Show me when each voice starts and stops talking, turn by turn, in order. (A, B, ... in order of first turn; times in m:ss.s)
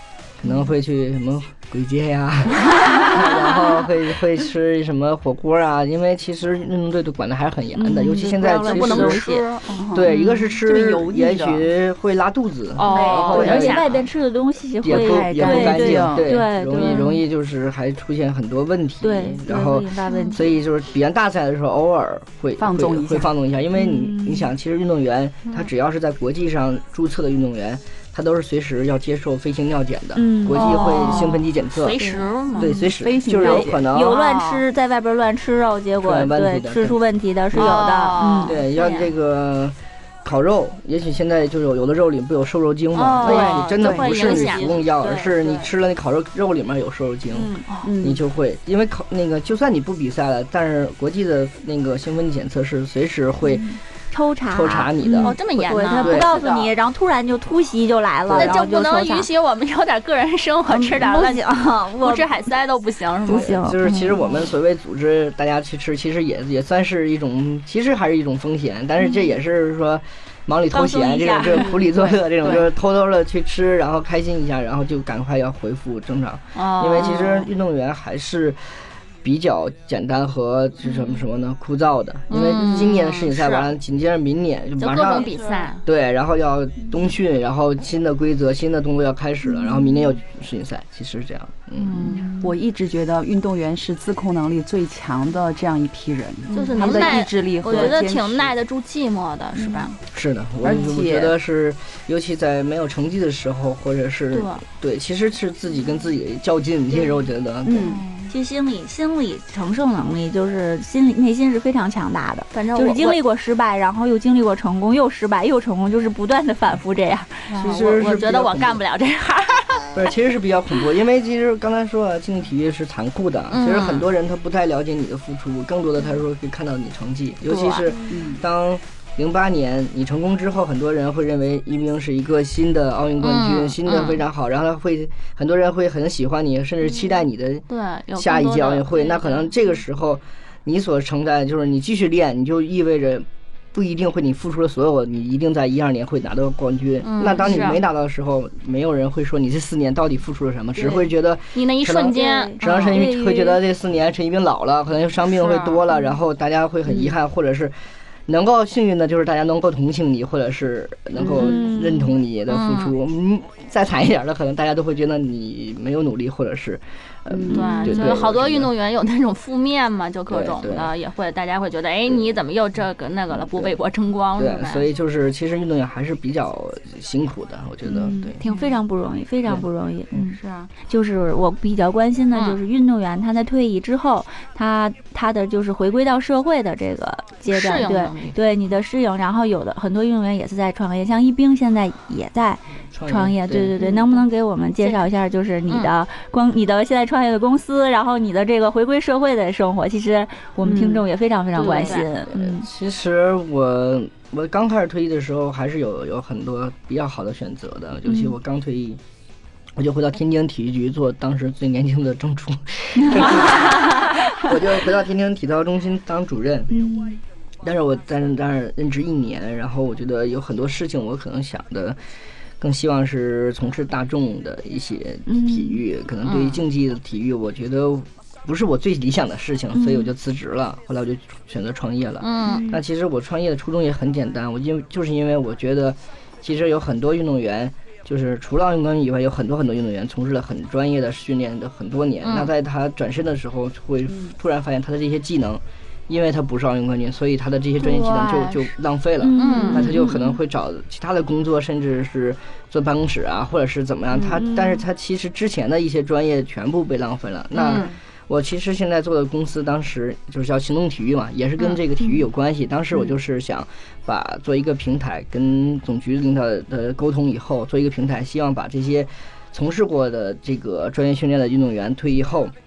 0:00.4-0:09.2 A
0:02.9-0:03.4 B
0:07.7-0:10.6 B
0:08.4-0:09.7 C
0:09.7-0:11.7 D
0:09.9-0:13.9 A
0:12.8-0:13.6 D
0:12.8-0:14.1 C
0:12.9-0:17.2 B
0:14.8-0:32.0 A
0:14.9-0:16.3 D
0:19.0-0:20.6 B
0:20.1-0:20.4 C
0:22.6-0:23.3 D
0:23.8-0:24.5 B
0:30.1-0:31.4 B
0:30.5-0:32.7 C
0:32.0-0:38.6 B
0:32.5-0:34.2 A
0:33.0-0:33.8 D
0:34.0-0:34.6 C
0:36.0-0:37.0 A
0:37.5-0:39.1 C
0:38.4-0:53.8 A
0:42.9-0:44.8 C
0:43.2-0:45.7 B
0:43.2-0:44.0 D
0:47.3-0:47.6 B
0:47.8-0:48.2 D
0:53.5-0:59.3 B
0:54.5-0:56.4 A
0:55.2-0:56.7 C
0:56.3-0:56.7 D
0:58.2-0:58.6 A
0:58.3-1:01.4 C
1:00.7-1:02.3 B
1:02.0-1:03.6 C
1:03.2-1:04.4 B
1:03.3-1:25.3 A
1:10.7-1:11.9 B
1:11.9-1:12.7 D
1:16.5-1:17.5 C
1:22.3-1:23.7 C
1:24.8-1:25.8 C
1:25.1-1:25.7 B
1:25.8-1:32.2 A
1:29.6-1:30.0 B
1:31.8-1:32.5 C
1:32.3-1:38.5 D
1:36.5-1:37.9 B
1:36.5-1:40.0 C
1:40.1-1:48.0 A
1:40.6-1:41.3 D
1:44.3-1:44.6 C
1:47.6-1:48.0 D
1:47.8-1:48.3 C
1:48.3-1:57.5 B
1:52.5-1:53.2 C
1:57.5-2:00.0 C
1:57.6-1:58.8 A
1:59.9-2:37.7 A
2:03.5-2:04.1 C
2:07.5-2:08.0 C
2:08.1-2:08.4 D
2:13.2-2:14.2 C
2:17.7-2:19.5 C
2:27.0-2:27.8 C
2:31.5-2:33.0 C
2:32.1-2:33.6 B
2:35.2-2:35.8 C
2:38.3-2:48.7 A
2:41.2-2:42.2 B
2:42.5-2:42.9 C
2:47.3-2:47.8 D
2:47.5-2:48.1 B
2:47.5-2:54.9 C
2:50.3-2:50.9 A
2:53.3-2:53.7 A
2:54.4-2:58.4 A
2:57.8-3:22.7 B
2:58.4-2:58.8 C
2:59.4-3:00.3 A
3:00.4-3:00.7 C
3:02.3-3:02.6 C
3:07.5-3:08.4 C
3:12.9-3:13.7 A
3:13.8-3:14.2 C
3:15.7-3:15.9 C
3:20.6-3:21.0 C
3:21.5-3:22.1 C
3:22.3-3:29.0 A
3:28.1-3:28.3 B
3:29.8-3:36.8 A
3:36.7-3:37.2 B
3:37.6-3:42.0 A
3:42.6-4:32.5 A
3:45.3-3:45.8 B
3:46.2-3:46.6 C
3:49.7-3:50.1 B
3:52.2-3:52.6 C
3:52.4-3:52.8 B
4:02.2-4:02.5 C
4:07.8-4:08.7 C
4:09.2-4:10.4 B
4:09.4-4:09.9 C
4:14.2-4:14.8 B
4:17.5-4:17.9 C